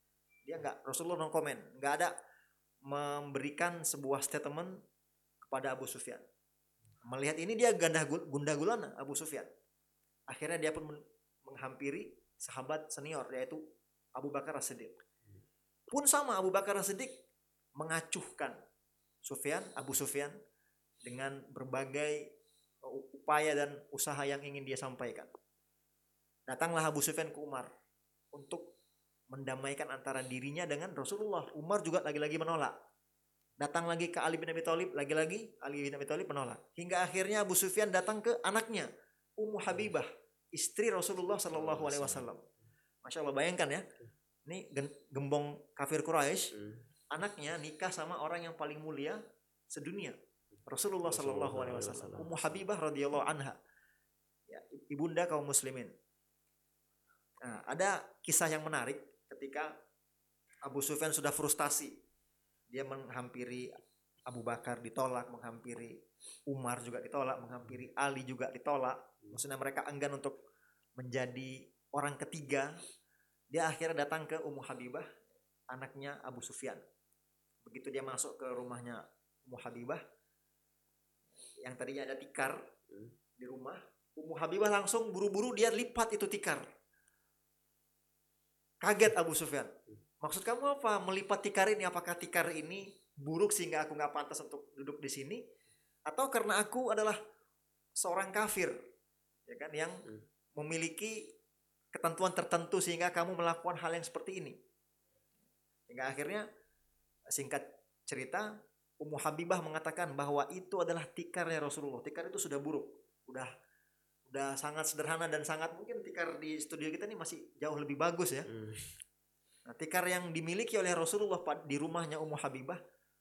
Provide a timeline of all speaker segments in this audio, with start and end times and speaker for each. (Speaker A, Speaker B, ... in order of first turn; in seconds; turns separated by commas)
Speaker A: 0.4-2.1, Speaker A: 2.8-4.8, Speaker A: 5.4-6.2, Speaker A: 7.1-9.5, Speaker A: 10.3-13.6, Speaker A: 14.2-15.0, Speaker A: 15.9-17.1, Speaker A: 17.8-18.6, Speaker A: 19.2-20.4, Speaker A: 21.0-22.3, Speaker A: 22.8-25.3, Speaker A: 26.5-27.7, Speaker A: 28.3-28.7, Speaker A: 29.3-32.8, Speaker A: 33.6-42.5, Speaker B: 41.4-42.3, Speaker A: 43.0-43.9, Speaker A: 44.5-46.5, Speaker B: 46.5-46.8, Speaker A: 47.1-53.6, Speaker B: 51.0-52.6, Speaker A: 54.5-55.9, Speaker A: 57.4-59.7, Speaker A: 60.6-62.0, Speaker A: 62.7-70.4, Speaker A: 71.0-72.8, Speaker A: 73.5-75.1, Speaker A: 75.7-76.8, Speaker A: 77.6-80.0, Speaker A: 81.6-82.6, Speaker B: 82.9-83.1, Speaker A: 83.4-86.7, Speaker A: 88.8-95.4, Speaker A: 96.1-97.2, Speaker A: 98.0-98.8, Speaker A: 99.5-101.3, Speaker A: 101.9-104.6, Speaker A: 105.9-106.5, Speaker A: 107.3-113.5, Speaker A: 114.3-118.5, Speaker B: 118.5-118.9, Speaker A: 119.7-122.8